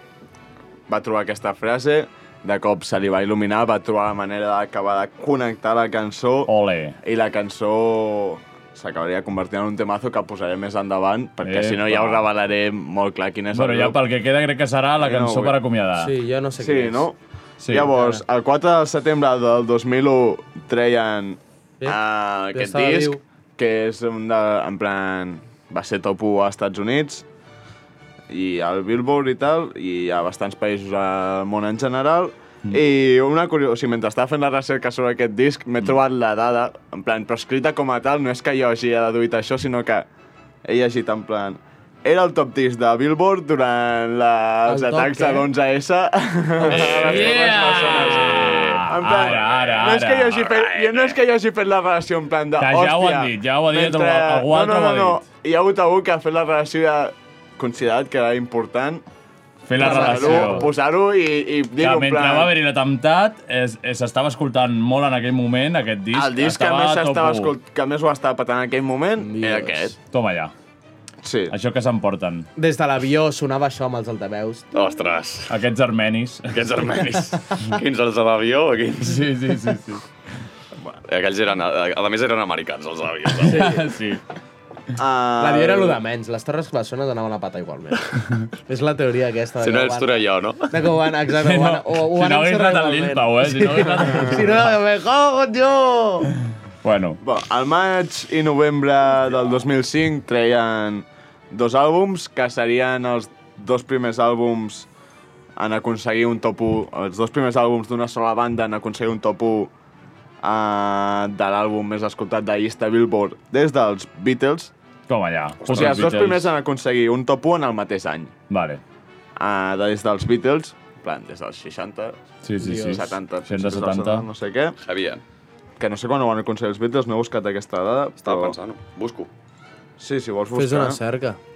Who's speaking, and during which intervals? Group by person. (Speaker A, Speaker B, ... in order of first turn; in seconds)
Speaker A: 0.9-6.5, 7.0-14.0, 15.0-15.6, 16.6-27.2, 28.3-40.1, 40.7-59.1, 59.8-62.5, 66.1-70.0, 71.2-71.5, 85.0-86.0, 97.2-104.9, 105.6-109.7, 110.4-114.7, 115.6-118.3, 119.4-122.2, 122.7-124.8, 125.8-128.6, 130.0-131.0
Speaker B: 6.5-7.0, 11.4-12.3, 13.5-16.1, 17.6-17.9, 46.6-50.5, 52.6-55.2, 59.7-60.7, 61.8-67.5, 70.1-70.5, 71.5-72.5, 75.5-76.9, 79.0-80.0, 83.4-84.2, 91.3-94.7, 96.8-97.2, 115.1-116.5, 118.5-118.8, 122.4-124.3
Speaker C: 16.0-17.1, 17.8-18.2, 22.5-23.2, 44.6-45.5, 59.8-60.7, 69.2-69.9, 72.6-74.7, 83.5-83.8, 85.4-96.3, 122.6-123.0, 130.6-131.4
Speaker D: 46.7-51.2, 74.7-75.5, 76.5-79.3, 81.1-83.7, 89.6-90.9, 115.8-116.1, 124.8-125.2, 128.2-129.3